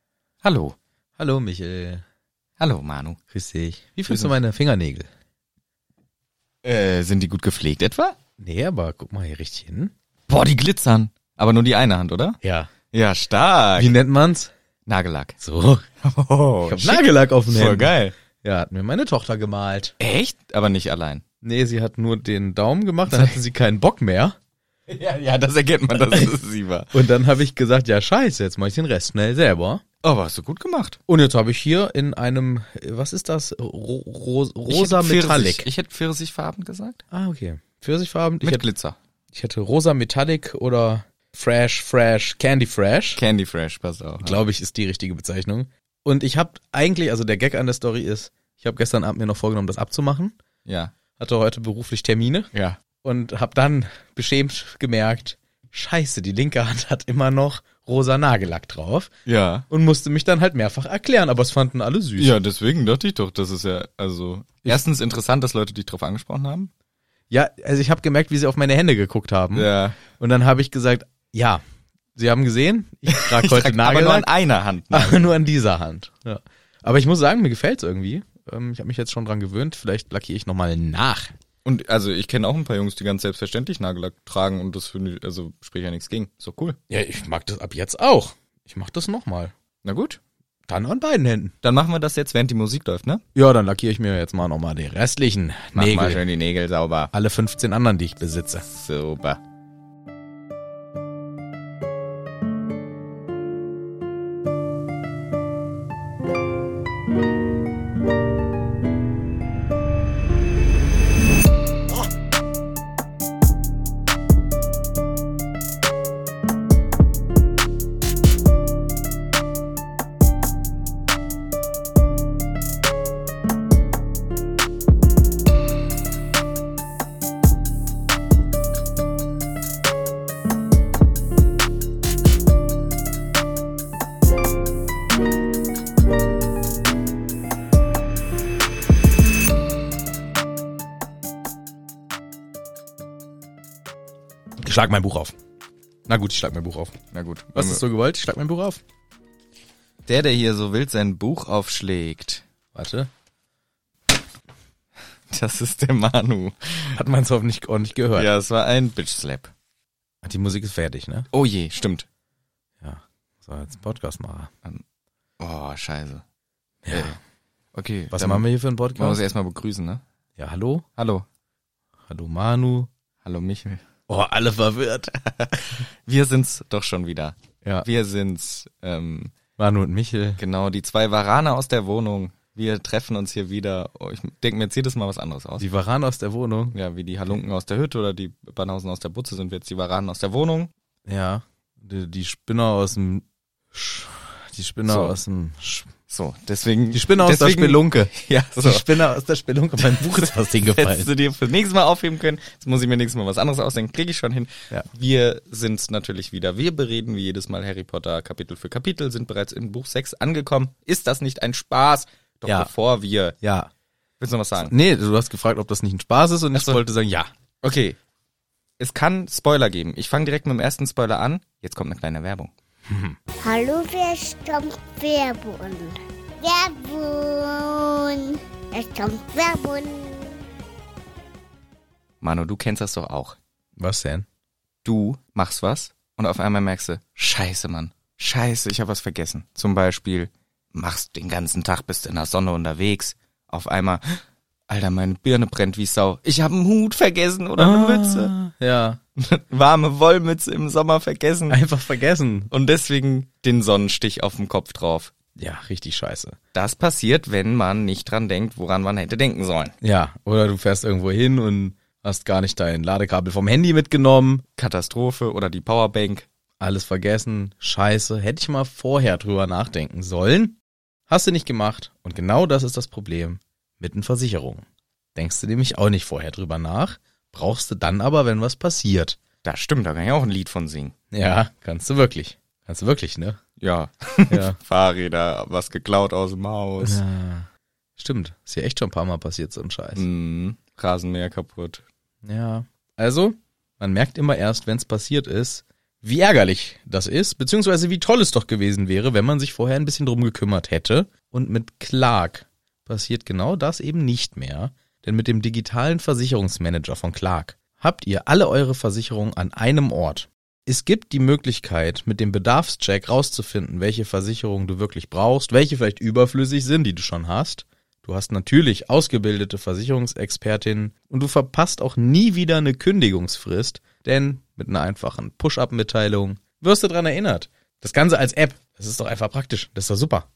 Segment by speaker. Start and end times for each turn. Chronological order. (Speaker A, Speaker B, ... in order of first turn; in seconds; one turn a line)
Speaker A: 0.4-0.8
Speaker B: 1.2-2.0
Speaker A: 2.6-3.2
Speaker B: 3.3-5.1
Speaker A: 4.1-4.4
Speaker A: 6.6-8.2
Speaker B: 8.4-9.9
Speaker A: 10.3-12.4
Speaker B: 12.4-12.7
Speaker A: 12.9-13.9
Speaker B: 13.8-14.5
Speaker A: 14.9-15.4
Speaker B: 15.4-15.9
Speaker A: 16.0-18.1
Speaker B: 16.6-19.9
Speaker A: 20.0-21.2
Speaker B: 21.4-24.4
Speaker A: 23.1-23.4
Speaker A: 24.9-26.9
Speaker B: 26.9-29.8
Speaker A: 30.0-31.0
Speaker B: 31.1-35.7
Speaker A: 34.7-37.0
Speaker B: 37.1-38.6
Speaker A: 38.4-39.0
Speaker B: 39.3-43.2
Speaker A: 43.2-44.4
Speaker B: 44.2-50.3
Speaker A: 50.7-50.9
Speaker B: 51.2-52.5
Speaker A: 52.5-52.8
Speaker B: 53.0-59.1
Speaker A: 59.3-59.7
Speaker B: 59.7-62.4
Speaker A: 62.2-66.7
Speaker B: 67.3-71.6
Speaker A: 69.5-70.0
Speaker B: 72.2-74.3
Speaker A: 73.1-75.3
Speaker B: 74.9-81.3
Speaker A: 81.6-86.8
Speaker B: 86.9-89.5
Speaker A: 89.8-90.2
Speaker B: 90.7-91.5
Speaker A: 91.6-93.2
Speaker B: 93.3-96.2
Speaker A: 95.7-97.1
Speaker B: 97.1-98.7
Speaker A: 98.7-99.4
Speaker B: 144.6-145.3
Speaker B: 146.1-146.9
Speaker A: 147.1-147.8
Speaker B: 147.5-148.8
Speaker A: 150.1-152.4
Speaker B: 152.7-153.1
Speaker A: 155.3-157.0
Speaker B: 156.9-158.3
Speaker A: 158.2-159.5
Speaker B: 160.2-161.3
Speaker A: 161.3-162.1
Speaker B: 162.8-164.5
Speaker A: 165.4-166.2
Speaker B: 166.8-167.2
Speaker A: 167.7-168.4
Speaker B: 168.1-169.2
Speaker A: 168.9-170.0
Speaker B: 170.4-170.8
Speaker A: 171.0-171.2
Speaker B: 172.1-172.9
Speaker A: 173.2-173.8
Speaker B: 174.1-175.2
Speaker A: 175.4-179.3
Speaker B: 179.6-180.4
Speaker A: 180.4-185.7
Speaker B: 185.6-186.8
Speaker A: 186.7-190.7
Speaker B: 191.1-195.9
Speaker A: 194.9-195.2
Speaker A: 196.1-199.0
Speaker B: 196.9-201.1
Speaker A: 199.8-213.4
Speaker B: 212.5-212.7
Speaker B: 213.4-213.7
Speaker A: 214.2-214.7
Speaker B: 214.6-217.3
Speaker A: 216.5-216.8
Speaker A: 217.6-218.0
Speaker A: 218.8-222.5
Speaker B: 222.9-223.2
Speaker C: 223.4-230.4
Speaker A: 232.2-233.4
Speaker B: 233.8-234.2
Speaker A: 234.8-248.3
Speaker B: 247.6-249.0
Speaker A: 249.2-251.6
Speaker B: 251.5-252.5
Speaker A: 252.5-255.1
Speaker B: 255.4-256.4
Speaker A: 256.5-259.8
Speaker B: 259.8-264.4
Speaker A: 264.6-266.3
Speaker B: 266.6-270.6
Speaker B: 271.1-274.6
Speaker B: 275.1-279.2
Speaker A: 279.4-280.9
Speaker B: 281.1-283.4
Speaker A: 283.6-287.0
Speaker B: 284.3-284.6
Speaker B: 286.8-290.1
Speaker A: 289.9-291.8
Speaker B: 292.2-330.3